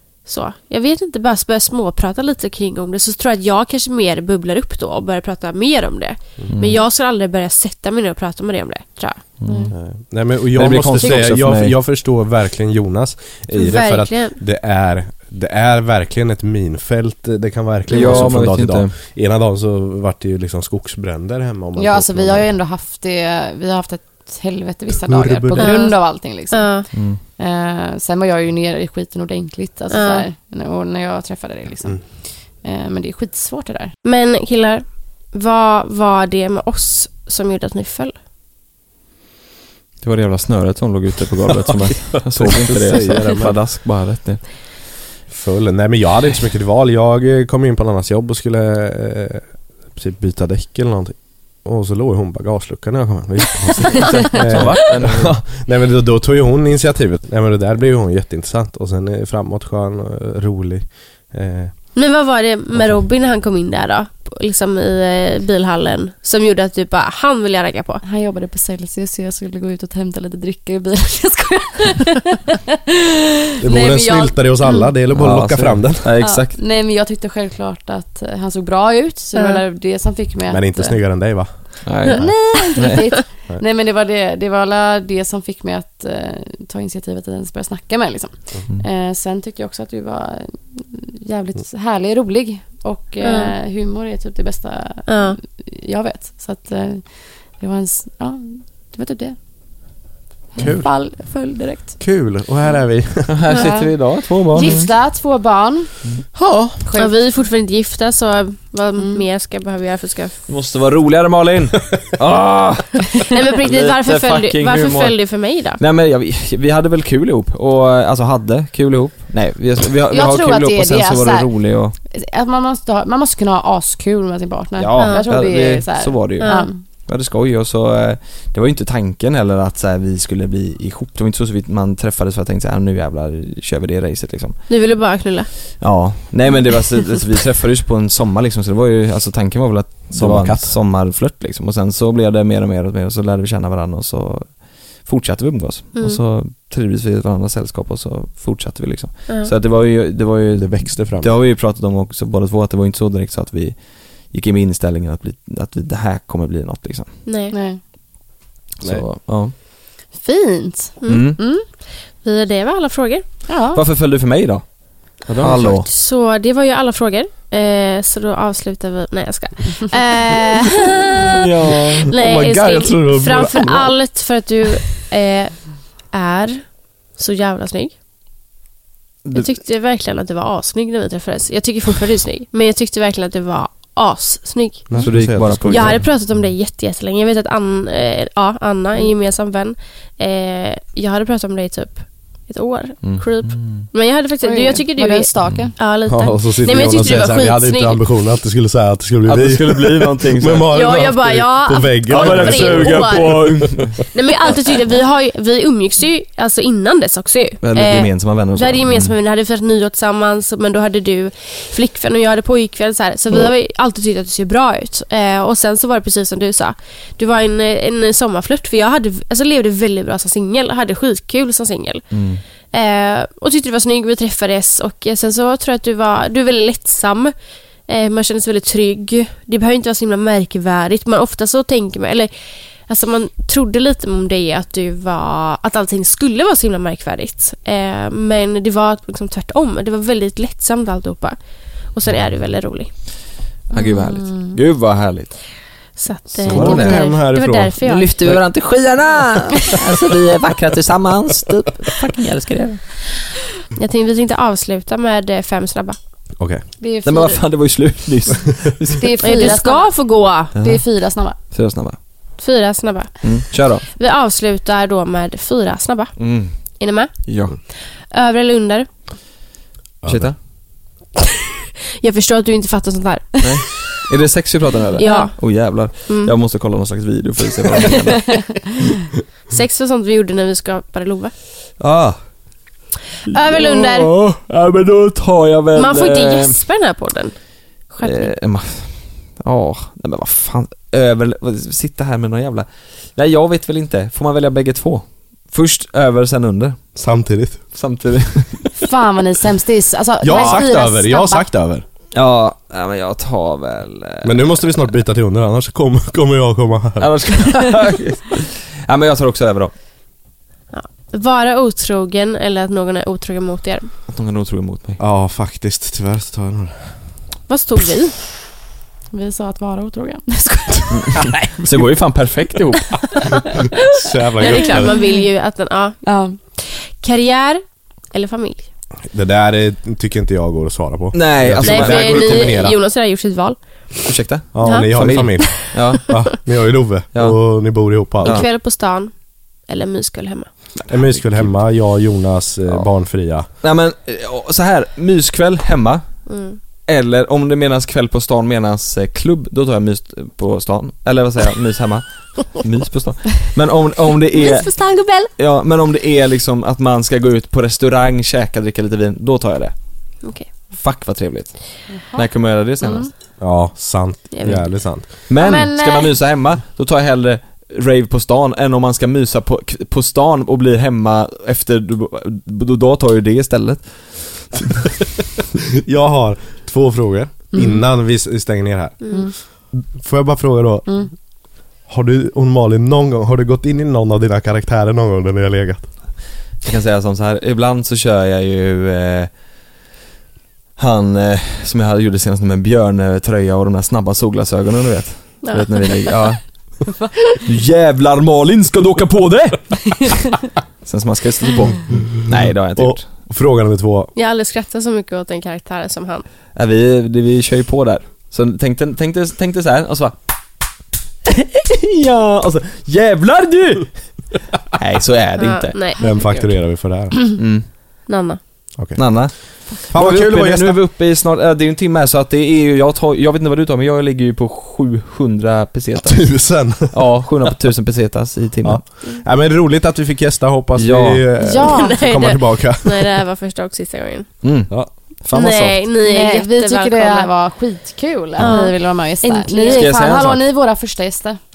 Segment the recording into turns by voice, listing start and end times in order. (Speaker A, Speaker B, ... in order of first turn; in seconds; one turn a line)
Speaker A: 0.2-9.3
Speaker B: 6.5-6.8
Speaker B: 9.4-9.7
Speaker C: 9.4-9.7
Speaker D: 9.7-22.5
Speaker B: 10.5-11.8
Speaker C: 10.8-11.1
Speaker A: 13.5-14.4
Speaker B: 17.9-18.9
Speaker A: 17.9-18.3
Speaker C: 21.8-33.9
Speaker D: 25.0-25.8
Speaker A: 25.6-26.9
Speaker B: 26.9-27.2
Speaker A: 29.9-30.3
Speaker A: 34.0-38.1
Speaker B: 40.0-44.6
Speaker D: 42.2-43.6
Speaker D: 45.3-61.9
Speaker B: 54.0-55.4
Speaker A: 61.9-68.0
Speaker C: 68.0-72.4
Speaker C: 73.5-74.8
Speaker D: 73.6-76.2
Speaker B: 75.1-76.6
Speaker C: 76.2-81.0
Speaker A: 79.4-79.6
Speaker D: 80.5-82.5
Speaker B: 81.8-83.0
Speaker A: 82.1-83.2
Speaker C: 82.1-99.4
Speaker A: 93.2-93.5
Speaker A: 95.1-95.4
Speaker C: 100.5-102.0
Speaker D: 100.6-101.4
Speaker D: 102.0-103.4
Speaker B: 103.3-104.9
Speaker C: 103.5-105.9
Speaker D: 106.3-106.8
Speaker C: 106.8-107.2
Speaker A: 107.0-110.3
Speaker C: 109.0-109.2
Speaker B: 110.5-115.2
Speaker A: 113.3-115.8
Speaker B: 115.8-122.0
Speaker C: 120.1-126.8
Speaker B: 124.8-134.6
Speaker A: 125.0-125.4
Speaker A: 126.4-126.7
Speaker A: 134.7-135.5
Speaker B: 135.8-157.2
Speaker D: 140.1-140.8
Speaker D: 150.6-151.3
Speaker A: 157.3-157.5
Speaker C: 157.5-157.8
Speaker B: 158.8-159.5
Speaker C: 160.1-161.7
Speaker A: 161.0-163.3
Speaker B: 161.1-161.4
Speaker C: 163.5-163.8
Speaker B: 163.7-165.9
Speaker D: 165.3-165.8
Speaker A: 165.8-171.4
Speaker B: 171.4-172.1
Speaker D: 172.1-173.9
Speaker A: 172.1-177.9
Speaker A: 179.3-185.0
Speaker D: 184.9-186.1
Speaker B: 185.0-186.1
Speaker A: 185.7-198.0
Speaker B: 193.0-193.9
Speaker C: 194.4-195.8
Speaker D: 196.1-203.9
Speaker B: 196.9-197.3
Speaker B: 199.3-200.7
Speaker A: 200.7-203.6
Speaker B: 202.1-204.0
Speaker A: 204.1-222.2
Speaker B: 207.6-209.2
Speaker B: 222.1-222.4
Speaker A: 222.7-227.3
Speaker A: 227.9-232.3
Speaker A: 232.9-243.0
Speaker B: 243.7-245.3
Speaker C: 243.8-244.6
Speaker A: 246.0-248.1
Speaker D: 246.3-248.4
Speaker B: 246.4-247.2
Speaker B: 247.8-252.8
Speaker A: 253.8-256.0
Speaker C: 256.8-257.4
Speaker B: 257.0-259.1
Speaker C: 258.9-261.4
Speaker A: 259.2-260.6
Speaker B: 260.6-260.8
Speaker B: 261.5-262.0
Speaker A: 262.4-267.1
Speaker B: 263.2-263.9
Speaker B: 266.2-266.6
Speaker B: 267.2-267.6
Speaker A: 268.1-268.9
Speaker D: 270.0-270.4
Speaker B: 270.1-270.4
Speaker A: 272.0-273.9
Speaker B: 273.4-278.7
Speaker C: 275.0-275.4
Speaker A: 275.0-276.3
Speaker A: 279.5-281.3
Speaker B: 281.8-282.6
Speaker B: 283.3-286.6
Speaker A: 283.3-284.1
Speaker A: 285.8-287.4
Speaker A: 287.9-288.3
Speaker B: 288.0-296.8
Speaker D: 297.0-297.6
Speaker B: 297.7-298.7
Speaker C: 298.8-301.5
Speaker D: 300.2-301.9
Speaker B: 302.1-304.5
Speaker D: 304.2-307.3
Speaker B: 307.0-309.7
Speaker A: 310.7-313.9
Speaker B: 314.1-315.0
Speaker D: 315.0-316.9
Speaker A: 317.5-318.2
Speaker C: 319.1-321.3
Speaker B: 320.9-323.2
Speaker D: 323.9-324.9
Speaker A: 324.4-326.0
Speaker C: 324.5-325.2
Speaker C: 326.0-326.4
Speaker A: 326.5-328.7
Speaker D: 329.1-332.8
Speaker B: 331.1-332.6
Speaker A: 331.6-334.0
Speaker B: 334.1-336.4
Speaker D: 334.5-338.4
Speaker A: 334.6-336.0
Speaker B: 337.1-338.5
Speaker A: 338.2-339.1
Speaker A: 339.7-340.5
Speaker B: 340.8-341.6
Speaker D: 340.9-343.5
Speaker B: 343.6-346.2
Speaker A: 346.3-346.6
Speaker B: 346.9-359.8
Speaker A: 354.4-355.3
Speaker B: 360.7-363.1
Speaker C: 361.9-363.1
Speaker D: 363.4-365.2
Speaker A: 364.3-364.6
Speaker B: 365.3-374.7
Speaker C: 365.4-366.1
Speaker D: 375.9-379.1
Speaker C: 377.5-377.9
Speaker C: 379.1-379.3
Speaker D: 379.7-381.1
Speaker D: 381.6-386.1
Speaker B: 386.6-389.5
Speaker B: 390.8-396.9
Speaker A: 395.4-396.1
Speaker B: 397.4-400.2
Speaker B: 400.8-403.1
Speaker D: 402.8-404.1
Speaker A: 404.2-406.3
Speaker B: 406.6-410.1
Speaker B: 411.3-414.0
Speaker B: 414.7-415.8
Speaker A: 415.4-416.0
Speaker C: 416.0-416.5
Speaker D: 416.0-417.3
Speaker B: 417.4-417.7
Speaker A: 418.1-418.4
Speaker D: 418.8-420.8
Speaker B: 418.9-428.8
Speaker D: 426.1-426.9
Speaker D: 428.6-433.1
Speaker B: 430.8-431.3
Speaker C: 431.4-432.0
Speaker A: 431.6-434.3
Speaker B: 434.4-435.9
Speaker A: 435.3-437.3
Speaker C: 436.0-441.4
Speaker A: 438.4-440.1
Speaker B: 439.7-440.5